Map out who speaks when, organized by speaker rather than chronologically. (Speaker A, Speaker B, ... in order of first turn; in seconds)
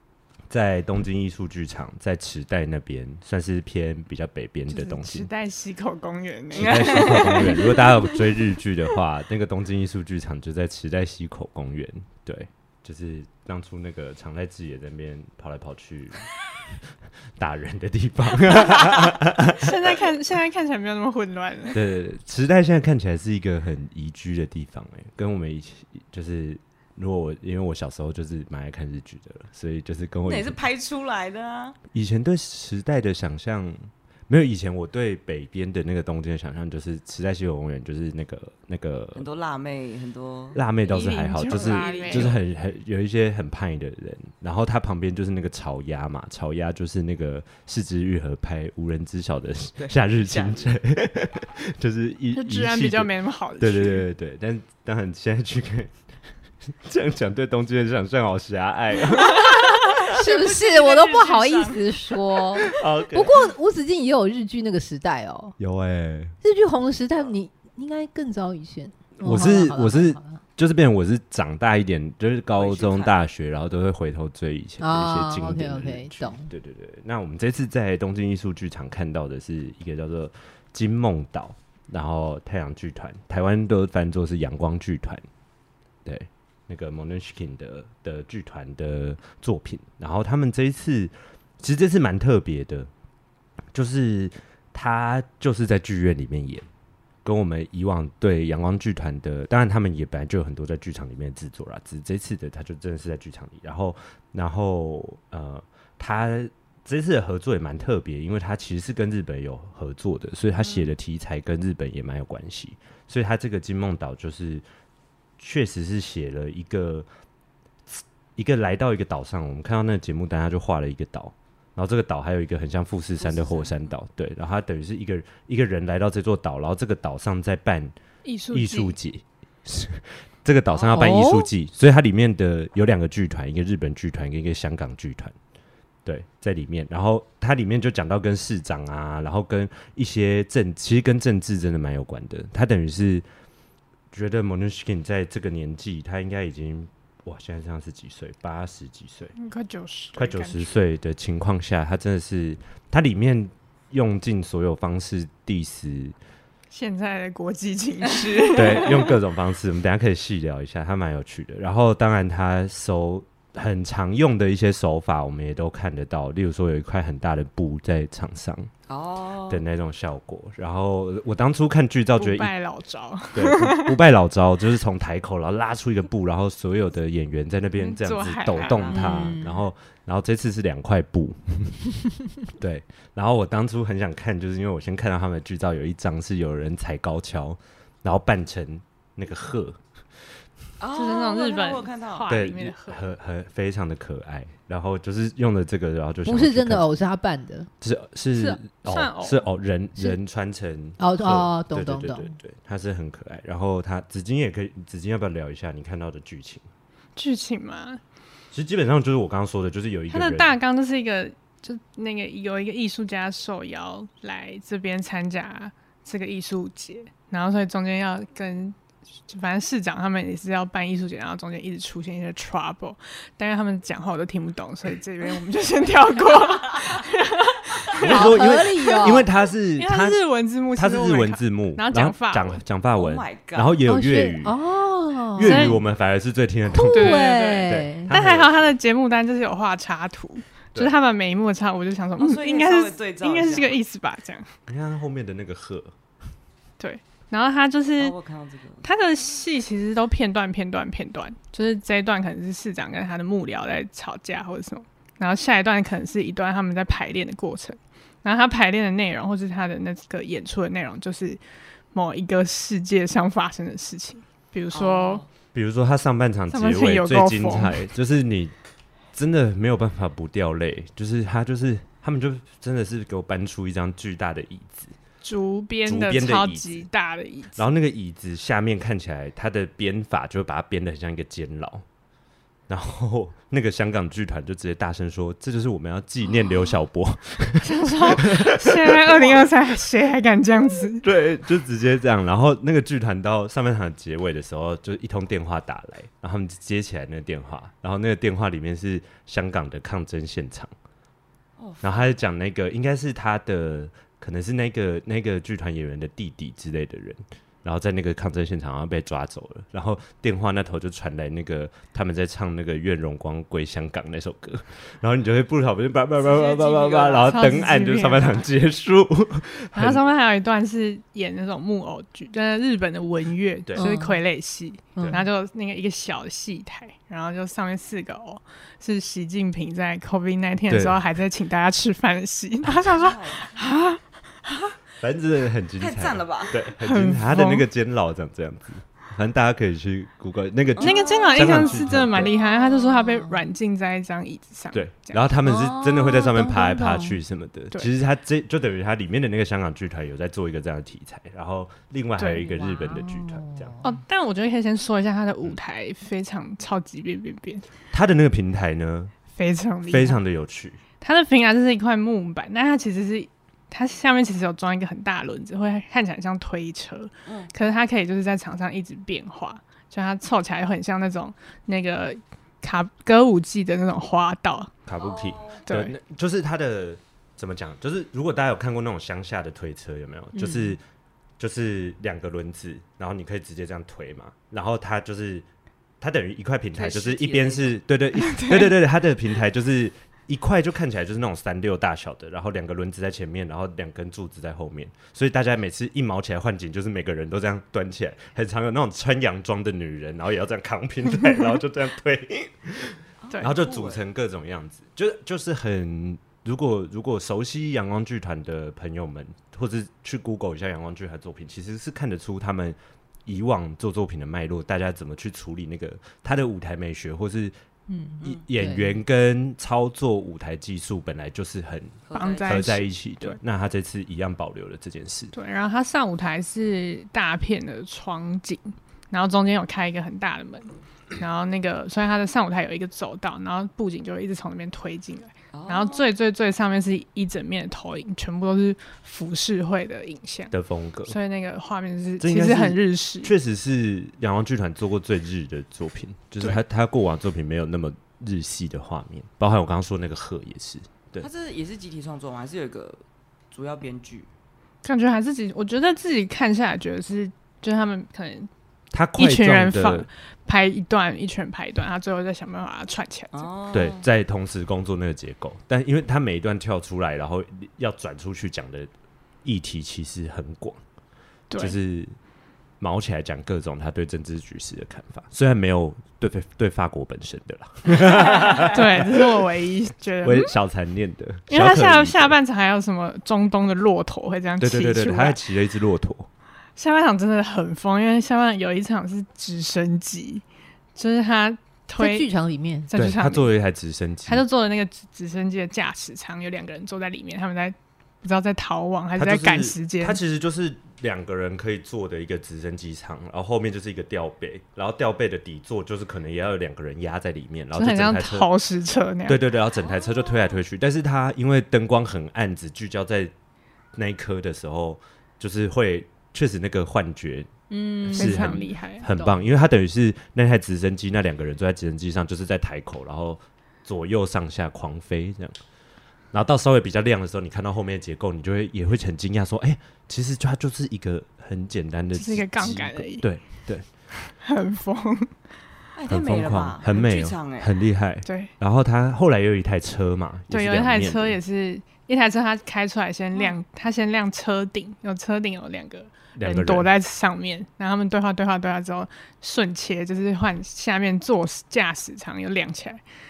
Speaker A: 0.5-5.3, 6.5-16.3, 17.4-20.1, 21.7-30.6, 31.9-39.2, 40.5-56.0, 56.7-60.1, 62.7-63.5, 65.6-66.3, 69.2-85.2, 86.0-92.9, 93.7-96.7, 97.2-114.6, 115.4-117.1, 117.9-127.9, 128.5-135.3, 136.1-143.2, 144.1-149.3, 150.1-156.2, 158.5-168.7, 169.5-172.5, 173.3-181.8, 182.5-189.8, 192.3-196.9, 197.8-206.7, 208.5-210.6, 228.0-230.2, 230.8-234.6, 235.3-238.7, 244.7-245.9, 265.5-268.5, 269.1-274.9, 275.9-276.9, 277.6-281.8, 282.7-289.4, 291.0-300.7, 301.8-320.0, 330.7-331.1, 335.0-342.3, 344.7-353.7, 357.9-359.1, 359.9-360.8, 374.9-380.8, 381.4-385.5, 386.0-417.5, 418.2-425.3, 440.5-441.1, 442.2-451.3, 458.9-460.1, 463.7-468.9, 469.4-470.8, 471.6-472.1, 472.8-479.4, 480.2-482.4, 484.6-486.3, 492.9-494.4, 499.2-508.5, 509.2-513.3, 514.0-517.5, 518.0-525.6, 526.3-533.9, 536.1-541.4, 546.4-546.9
Speaker B: 4.7-7.8, 19.5-21.8, 40.8-42.4, 52.3-54.0, 128.2-128.9, 149.4-150.8, 156.7-159.0, 172.2-174.0, 177.8-178.9, 190.9-193.1, 198.3-199.4, 207.2-208.0, 210.1-218.8, 219.3-229.2, 229.8-232.6, 235.4-235.8, 236.8-244.5, 246.8-248.1, 248.8-261.4, 261.9-265.2, 266.5-267.9, 275.2-277.6, 287.6-291.1, 317.2-318.4, 319.8-334.5, 336.8-337.7, 340.8-345.2, 352.2-352.6, 353.8-357.6, 359.3-360.2, 361.0-374.7, 375.6-375.9, 388.1-388.8, 403.3-403.6, 422.1-423.4, 425.3-440.5, 441.1-443.3, 454.8-458.5, 459.2-463.5, 471.5-471.8, 478.0-480.5, 481.5-485.4, 486.8-490.4, 491.0-492.3, 492.9-493.5, 494.3-500.2, 507.8-509.4, 518.1-519.1, 532.1-533.3, 534.2-535.3, 538.2-538.5, 540.5-553.0
Speaker C: 6.5-7.9, 30.2-31.8, 39.2-40.6, 41.5-42.4, 49.8-50.6, 60.1-61.8, 72.6-73.2, 110.6-110.9, 123.2-123.8, 130.7-131.1, 158.3-159.1, 168.9-169.6, 178.5-179.3, 190.8-192.3, 232.9-233.8, 242.2-243.8, 248.0-248.9, 264.7-265.3, 301.6-302.1, 316.2-317.4, 332.7-333.8, 335.8-336.6, 340.8-342.3, 375.0-375.6, 386.7-387.8, 403.2-404.0, 422.0-422.7, 435.5-436.0, 451.2-454.3, 463.3-464.0, 509.8-510.6, 535.9-537.7
Speaker D: 60.0-65.6, 66.4-70.4, 74.8-76.5, 130.9-131.5, 178.9-179.7, 196.2-197.7, 201.0-202.3, 228.0-229.3, 233.9-235.8, 236.7-238.1, 323.8-324.2, 324.9-325.2, 342.4-343.4, 345.4-347.2, 352.8-353.9, 380.3-380.8, 417.9-419.0, 492.0-492.9, 517.7-518.5, 519.1-519.5